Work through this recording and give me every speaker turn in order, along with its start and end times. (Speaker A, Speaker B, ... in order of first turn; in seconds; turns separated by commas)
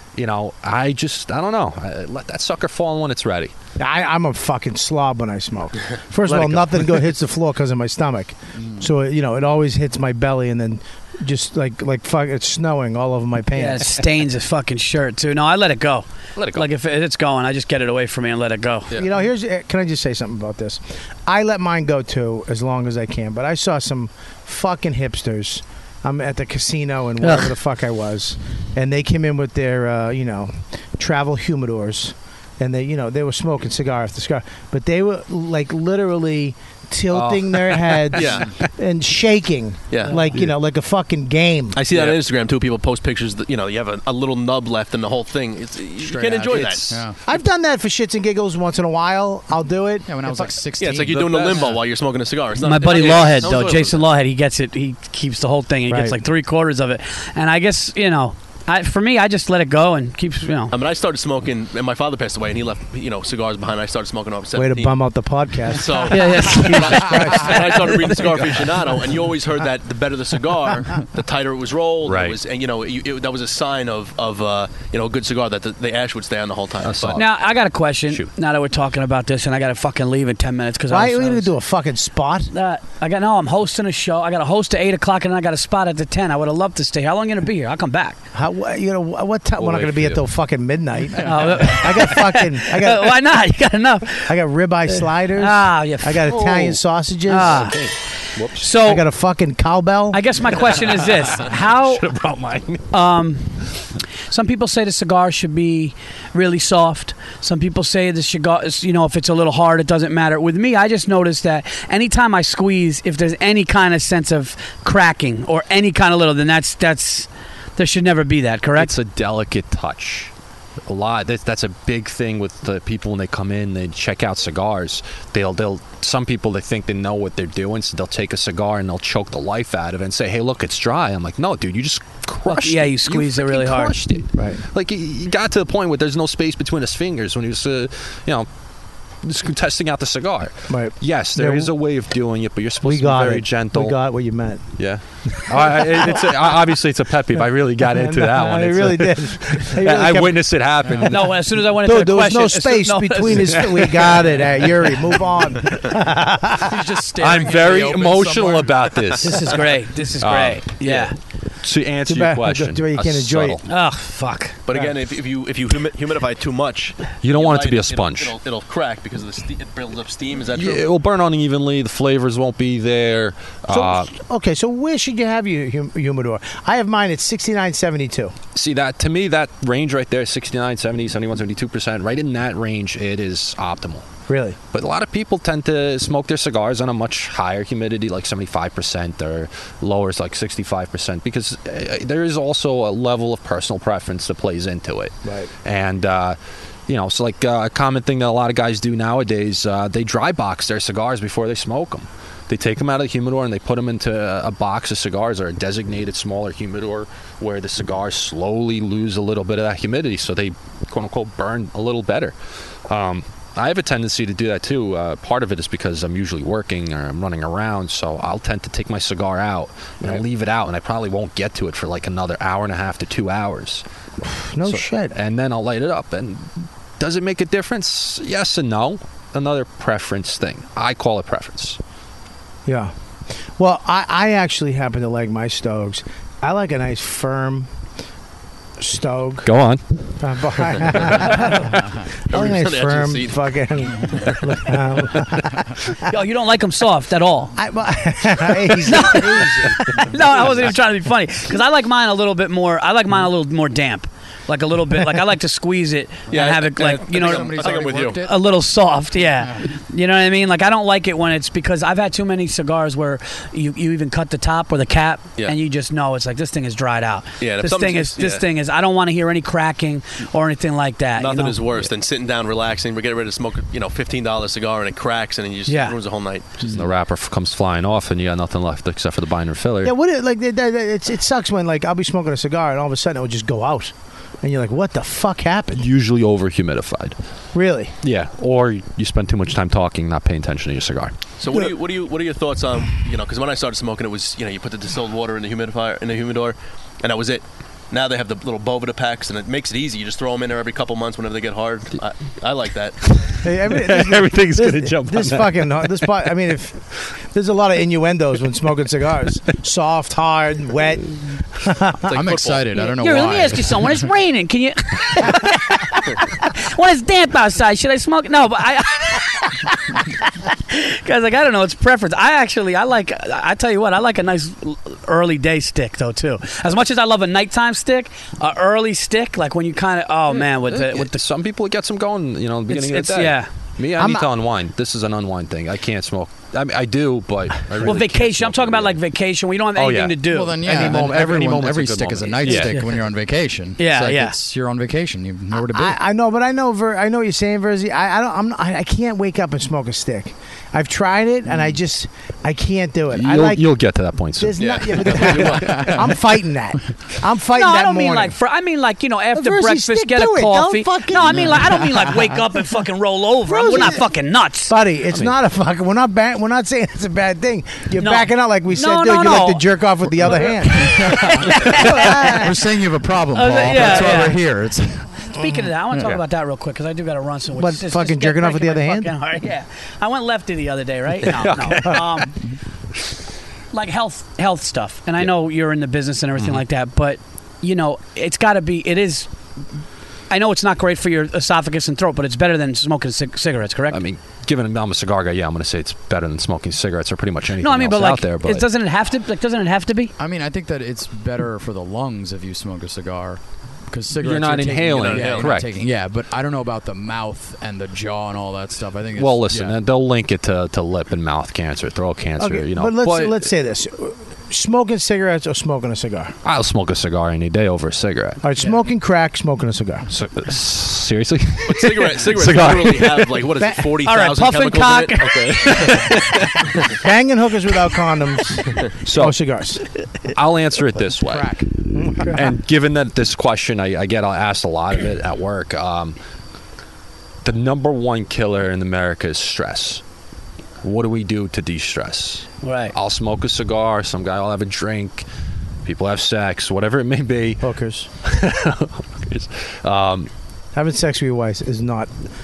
Speaker A: 0.1-3.5, Speaker B: 3.8-14.0, Speaker A: 6.2-7.1, Speaker C: 13.5-18.9, Speaker A: 16.4-16.7, Speaker B: 18.9-41.8, Speaker C: 27.2-27.5, Speaker A: 37.1-38.4, Speaker D: 38.1-38.5, Speaker D: 39.9-40.2, Speaker D: 41.7-46.9, Speaker A: 41.9-42.2, Speaker E: 46.0-47.2, Speaker A: 46.6-47.0, Speaker B: 47.2-50.5, Speaker E: 50.1-51.9, Speaker D: 50.8-54.1, Speaker A: 51.0-51.4, Speaker C: 52.6-60.7, Speaker B: 55.9-56.2, Speaker D: 60.7-64.9, Speaker B: 64.5-66.5, Speaker D: 65.7-77.2, Speaker C: 66.1-67.8, Speaker B: 67.0-68.1, Speaker A: 72.0-72.4, Speaker A: 76.8-77.3, Speaker C: 77.2-81.5, Speaker B: 80.9-82.5, Speaker C: 82.5-88.2, Speaker B: 88.3-93.2, Speaker A: 89.6-90.2, Speaker C: 91.2-94.3, Speaker B: 94.2-97.7, Speaker C: 94.9-97.8, Speaker A: 97.4-98.7, Speaker C: 98.5-99.0, Speaker B: 98.8-100.2, Speaker C: 100.1-102.0, Speaker A: 100.7-102.9, Speaker C: 102.9-103.7, Speaker C: 104.3-118.9, Speaker A: 118.8-120.3, Speaker A: 120.8-138.5, Speaker C: 132.5-134.0, Speaker B: 134.3-134.6, Speaker A: 139.2-143.9, Speaker B: 140.7-141.7, Speaker B: 142.8-144.6, Speaker A: 144.8-151.4, Speaker B: 145.4-146.6, Speaker B: 147.8-150.4, Speaker E: 150.8-151.1, Speaker C: 151.1-153.8, Speaker B: 151.8-156.8, Speaker A: 153.5-154.3, Speaker E: 156.6-159.0, Speaker A: 157.2-159.6, Speaker C: 159.2-161.1, Speaker A: 160.2-163.6, Speaker B: 162.1-163.6, Speaker C: 163.7-164.6, Speaker D: 164.7-170.8, Speaker A: 167.2-168.3, Speaker A: 170.5-174.1, Speaker B: 173.7-178.3, Speaker A: 178.5-184.1, Speaker B: 184.3-184.6, Speaker A: 184.7-196.4, Speaker B: 195.2-195.5, Speaker A: 196.9-212.3, Speaker A: 212.9-223.8, Speaker B: 224.2-225.1, Speaker A: 224.6-231.8, Speaker B: 232.7-232.9, Speaker B: 233.6-237.7, Speaker B: 238.8-239.5, Speaker A: 239.4-239.8, Speaker B: 240.2-246.1, Speaker D: 242.3-243.5, Speaker D: 244.1-244.4, Speaker C: 246.0-247.6, Speaker B: 247.6-250.6, Speaker C: 248.8-271.6, Speaker D: 256.3-258.2, Speaker E: 257.1-258.4, Speaker E: 259.4-259.7, Speaker D: 267.4-268.4, Speaker D: 271.2-276.8, Speaker C: 275.7-275.9, Speaker A: 276.7-279.9, Speaker B: 279.8-285.8, Speaker A: 285.8-287.1, Speaker B: 287.5-287.9, Speaker A: 288.0-291.1, Speaker D: 291.4-303.1, Speaker A: 303.1-306.3, Speaker B: 303.4-312.2, Speaker D: 312.1-312.8, Speaker E: 312.1-314.1, Speaker C: 312.8-331.2, Speaker A: 330.3-339.0, Speaker C: 332.7-333.5, Speaker B: 333.9-334.3, Speaker C: 337.8-340.7, Speaker A: 339.8-342.8, Speaker E: 340.2-345.9, Speaker B: 340.8-341.1, Speaker C: 342.4-342.9, Speaker C: 343.8-344.3, Speaker B: 345.5-353.7, Speaker A: 353.1-355.4, Speaker B: 354.4-358.4, Speaker D: 354.6-355.9, Speaker E: 355.7-356.0, Speaker C: 357.5-364.7, Speaker B: 359.3-361.7, Speaker E: 361.4-362.2, Speaker B: 363.4-364.1, Speaker B: 364.7-372.6, Speaker A: 365.1-365.4, Speaker C: 368.0-369.7, Speaker C: 370.4-372.4, Speaker E: 371.1-375.3, Speaker C: 373.3-374.4, Speaker C: 375.3-382.4, Speaker B: 377.6-379.1, Speaker A: 381.2-382.2, Speaker C: 383.7-389.3, Speaker A: 386.4-386.6, Speaker C: 390.3-394.0, Speaker A: 393.9-398.6, Speaker C: 397.6-400.1, Speaker E: 400.2-409.8, Speaker A: 404.2-405.7, Speaker D: 404.9-405.5, Speaker A: 409.2-413.4, Speaker B: 412.4-416.4, Speaker A: 416.4-418.4, Speaker B: 418.4-420.1, Speaker A: 420.1-423.5, Speaker D: 421.6-425.2, Speaker C: 424.0-425.7, Speaker A: 425.2-426.7, Speaker B: 427.0-429.8, Speaker A: 429.0-429.4, Speaker A: 430.3-431.6, Speaker B: 431.4-432.5, Speaker A: 432.2-436.2, Speaker A: 437.4-440.0, Speaker A: 440.8-445.2, Speaker C: 442.6-442.9, Speaker A: 445.8-447.7, Speaker B: 447.6-448.1, Speaker A: 448.2-450.3, Speaker B: 450.7-452.1